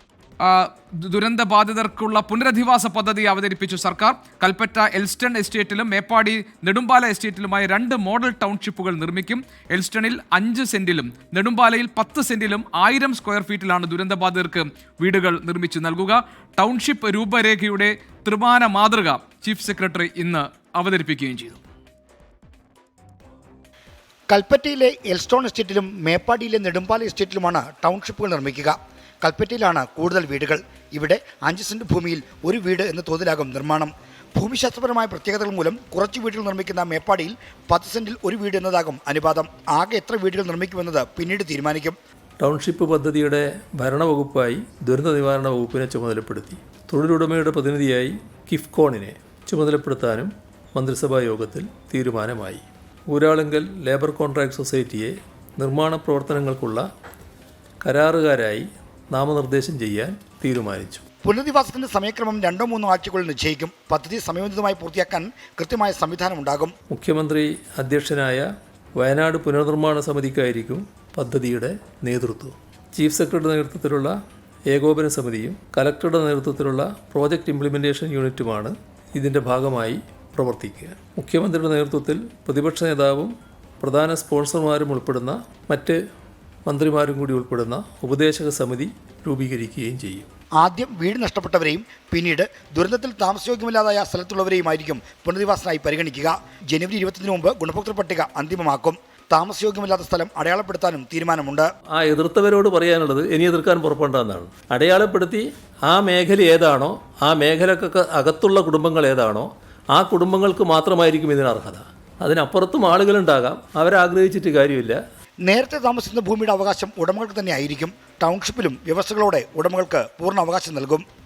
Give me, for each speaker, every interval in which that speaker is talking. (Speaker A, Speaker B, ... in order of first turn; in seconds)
Speaker A: 0.4-21.6
Speaker B: 24.3-42.0, 61.2-66.7, 90.6-101.7, 115.5-121.0
Speaker C: 42.4-56.9, 57.8-61.0, 66.9-74.1, 74.7-86.0, 86.7-90.3, 102.0-115.0